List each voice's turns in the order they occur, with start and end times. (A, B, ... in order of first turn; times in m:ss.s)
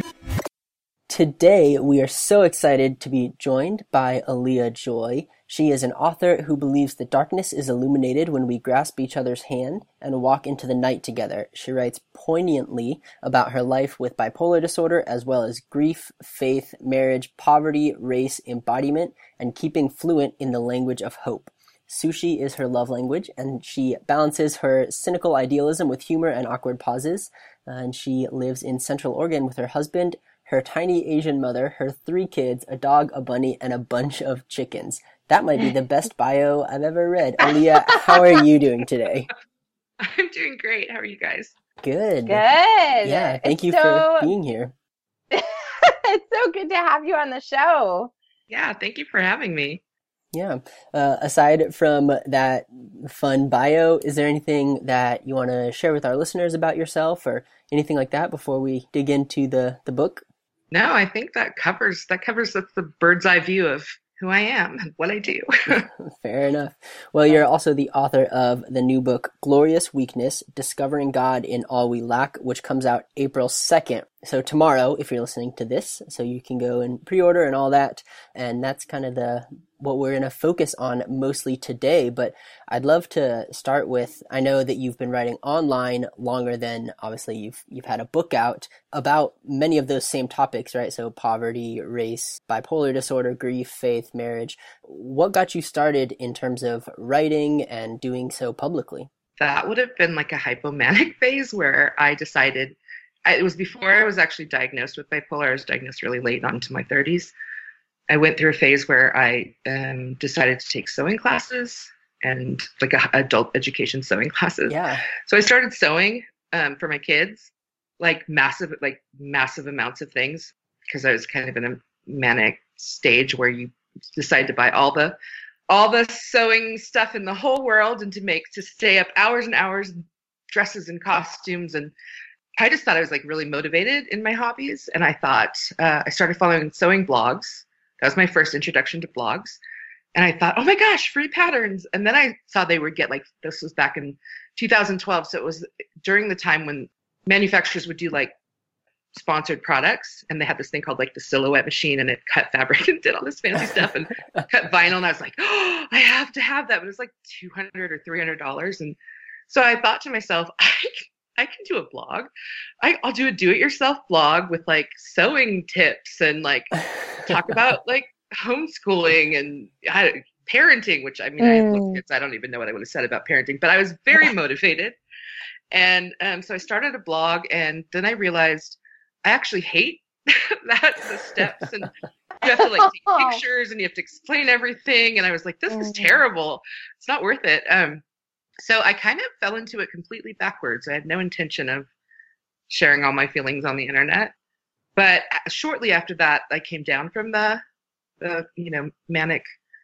0:01.1-0:39.3 A
0:37.4-0:38.4 B
0:40.0-0:41.5 C
0:41.8-0:42.4 A
0:42.3-0:44.3 B
0:43.0-0:44.7 A
0:45.3-0:48.1 B
0:48.5-0:49.8 C
0:50.3-1:00.2 A
1:00.7-1:05.9 C
1:05.7-1:39.1 A
1:39.4-1:47.3 C
1:48.1-2:05.2 C
1:54.7-1:55.0 A
2:05.7-2:10.0 C
2:10.5-2:11.9 C
2:12.6-2:19.6 C
2:20.1-2:28.3 C
2:29.1-2:39.0 C
2:39.5-2:42.3 C
2:42.8-2:55.0 C
2:51.4-2:52.0 B
2:55.7-3:08.0 C
3:02.6-3:03.4 B
3:05.7-3:06.2 B
3:08.6-3:11.9 C
3:12.7-3:14.3 C
3:15.0-3:17.6 C
3:18.2-3:19.4 C